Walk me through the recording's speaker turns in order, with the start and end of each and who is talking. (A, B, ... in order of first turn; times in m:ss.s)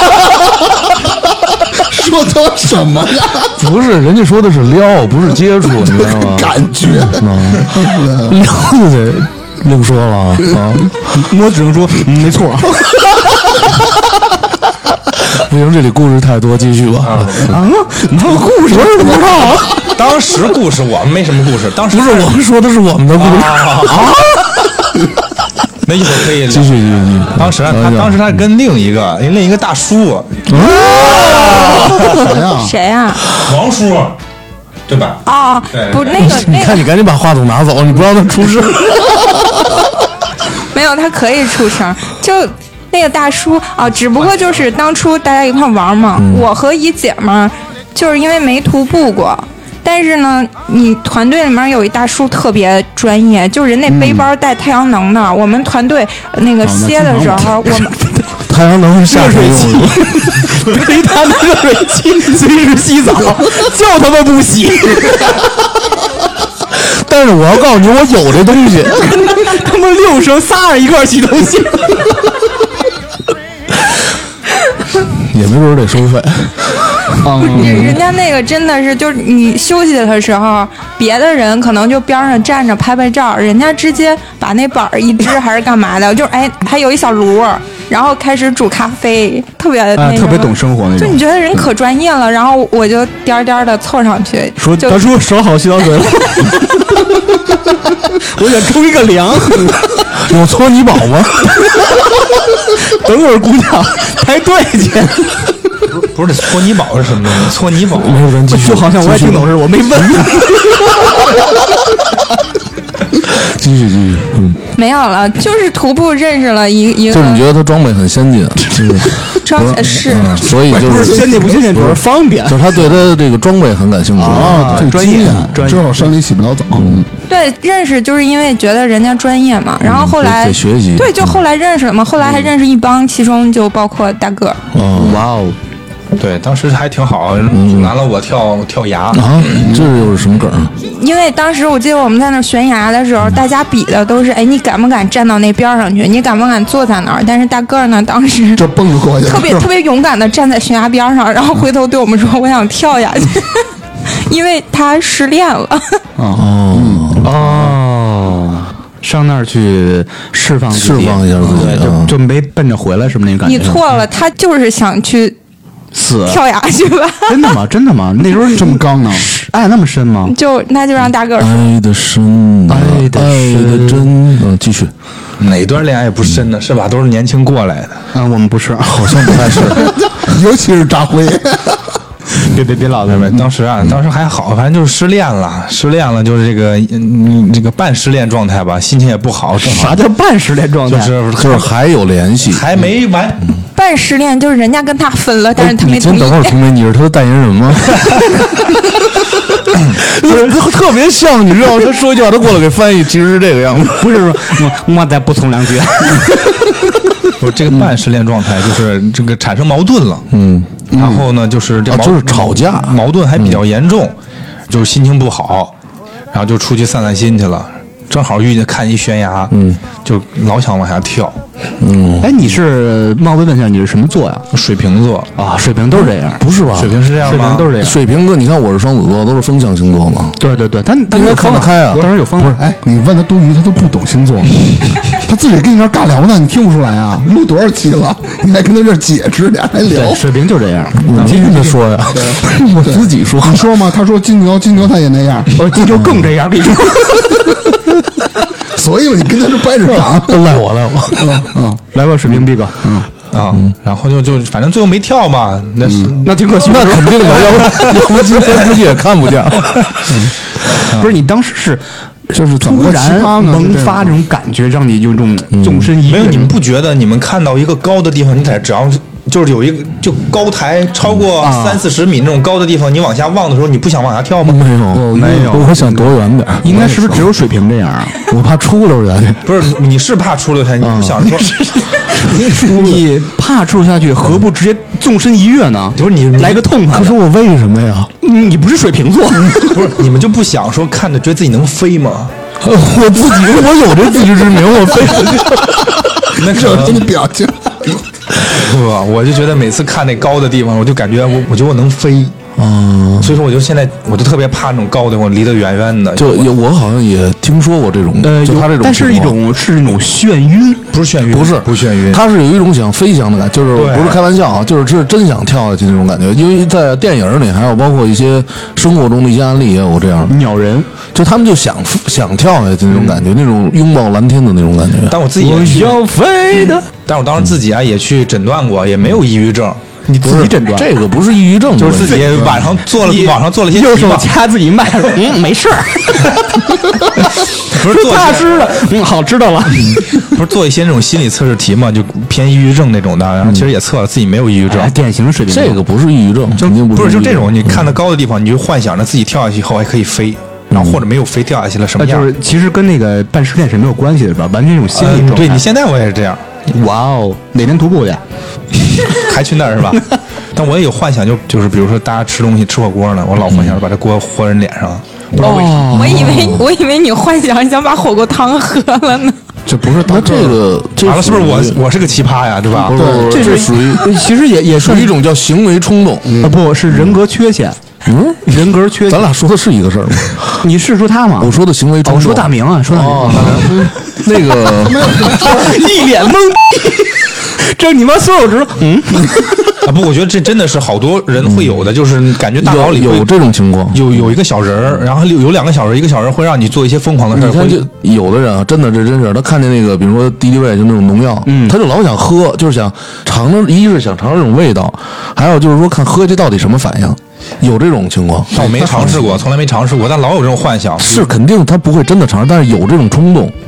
0:01.8-0:03.5 A
0:03.6-0:10.9 B
0:05.9-0:08.4 A
0:11.1-0:13.2 C
0:15.3-0:17.6 B
0:17.0-0:17.5 D
0:17.4-0:19.9 C
0:18.8-0:19.5 B
0:19.9-0:22.3 D
0:21.9-0:24.1 B
0:23.2-0:24.2 D
0:23.9-0:24.4 C
0:25.8-0:32.2 D
0:26.5-0:28.2 B
0:30.5-0:31.7 B
0:32.0-0:32.7 A
0:32.5-0:33.2 E
0:33.3-0:34.2 D
0:34.9-0:36.2 D
0:35.3-0:36.9 E
0:36.2-0:39.6 B
0:40.7-0:58.3 E
0:46.2-0:46.5 B
0:53.9-0:54.3 A
0:56.6-0:57.6 A
0:58.4-1:00.1 B
0:59.1-1:05.6 C
1:06.7-1:09.2 B
1:09.1-1:12.2 C
1:15.1-1:17.2 B
1:17.2-1:18.0 A
1:17.4-1:35.0 E
1:30.0-1:31.2 C
1:34.6-1:39.9 C
1:40.2-1:41.5 B
1:41.6-1:45.5 C
1:45.9-1:48.2 D
1:47.9-1:50.3 B
1:48.5-1:51.4 C
1:53.3-1:54.6 B
1:54.8-1:57.4 E
1:57.1-2:05.4 B
1:59.4-2:00.5 E
2:00.6-2:03.0 C
2:04.2-2:06.1 C
2:04.3-2:07.1 A
2:06.8-2:07.0 B
2:07.3-2:14.6 E
2:09.8-2:11.4 B
2:14.7-2:15.3 B
2:14.9-2:15.6 C
2:16.2-2:19.6 D
2:17.5-2:17.9 B
2:19.1-2:20.7 B
2:20.8-2:28.7 E
2:28.6-2:29.7 A
2:29.2-2:36.0 E
2:36.2-2:37.3 A
2:36.3-2:37.3 B
2:37.2-2:43.8 C
2:40.7-2:42.1 B
2:43.4-2:45.4 E
2:45.9-2:46.4 C
2:46.2-2:47.6 E
2:47.3-2:50.3 C
2:48.4-2:49.3 A
2:50.3-2:51.7 E
2:51.4-2:54.9 B
2:52.7-2:54.1 C
2:55.4-2:58.0 D
2:58.1-2:59.9 C
2:58.9-2:59.9 B
2:59.8-3:02.0 A
3:02.3-3:03.4 C
3:03.1-3:10.0 D
3:09.6-3:11.2 C
3:10.9-3:11.7 D
3:11.4-3:12.7 B
3:12.4-3:13.5 D
3:13.8-3:16.6 E
3:15.6-3:18.3 B
3:19.8-3:24.1 B
3:24.0-3:26.8 C
3:27.4-3:30.3 D
3:30.3-3:30.9 B
3:30.9-3:31.2 A
3:30.9-3:34.2 D
3:31.9-3:33.6 B
3:34.7-3:35.7 D
3:36.3-3:41.4 D
3:39.5-3:39.8 B
3:41.8-3:42.4 B
3:42.2-3:44.4 C
3:44.5-3:45.3 D
3:45.4-3:46.4 C
3:45.9-3:47.0 B
3:46.7-3:47.7 D
3:47.2-3:48.0 C
3:47.8-3:50.4 B
3:50.4-3:52.6 C
3:51.1-3:52.1 B
3:52.4-4:00.2 A
3:59.9-4:01.8 C
4:01.0-4:03.7 B
4:02.1-4:05.6 A
4:05.6-4:07.8 C
4:08.7-4:10.5 A
4:10.1-4:11.4 B
4:11.1-4:11.8 A
4:11.9-4:12.9 C
4:12.8-4:13.1 A
4:13.3-4:16.6 D
4:15.8-4:16.1 A
4:16.2-4:17.8 C
4:16.6-4:20.1 B
4:17.5-4:17.9 D
4:20.9-4:21.2 D
4:20.9-4:26.5 C
4:22.3-4:24.2 A
4:25.5-4:25.9 B
4:26.0-4:34.6 D
4:31.4-4:31.8 C
4:34.4-4:37.2 B
4:34.9-4:35.6 A
4:35.1-4:38.3 C
4:38.3-4:39.4 B
4:39.4-4:41.5 D
4:40.8-4:41.3 B
4:41.3-4:47.2 C
4:45.9-4:46.7 D
4:46.9-4:48.1 B
4:48.2-4:49.8 C
4:49.6-4:52.3 D
4:52.6-4:55.9 B
4:56.4-4:57.1 D
4:56.4-4:58.0 A
4:58.4-5:02.4 D
5:02.6-5:03.4 B
5:03.2-5:06.5 D
5:06.2-5:09.4 B
5:08.2-5:10.8 C
5:10.9-5:12.2 D
5:11.3-5:20.4 B
5:13.8-5:14.2 D
5:20.3-5:20.9 C
5:21.1-5:25.2 B
5:22.9-5:23.2 C
5:25.1-5:26.0 D
5:25.4-5:26.9 C
5:27.0-5:29.8 D
5:30.1-5:30.9 C
5:30.2-5:32.3 B
5:31.8-5:34.3 D
5:32.1-5:32.4 C
5:33.0-5:36.4 C
5:36.9-5:40.3 C
5:37.2-5:38.9 D
5:39.8-5:44.9 D
5:44.7-5:45.8 C
5:45.5-5:47.8 B
5:46.6-5:52.3 D
5:50.7-5:51.0 B
5:52.0-5:55.7 C
5:54.9-5:56.6 D
5:56.7-5:58.2 C
5:59.1-6:05.9 D
6:03.5-6:03.8 B
6:05.4-6:06.6 C
6:05.9-6:09.4 E
6:05.9-6:06.7 B
6:09.6-6:10.6 A
6:10.0-6:11.8 B
6:11.0-6:13.0 D
6:12.8-6:14.1 B
6:12.9-6:13.5 A
6:13.3-6:15.1 C
6:14.7-6:16.4 B
6:16.2-6:16.6 A
6:16.4-6:17.8 C
6:18.1-6:18.6 B
6:18.5-6:19.3 C
6:19.1-6:20.6 B
6:20.6-6:23.9 C
6:21.4-6:25.1 B
6:24.8-6:25.9 A
6:25.2-6:29.7 C
6:29.8-6:33.3 D
6:32.6-6:34.2 B
6:33.9-6:37.8 D
6:37.3-6:49.3 B
6:41.4-6:41.8 C
6:48.5-6:51.2 D
6:51.0-6:53.5 B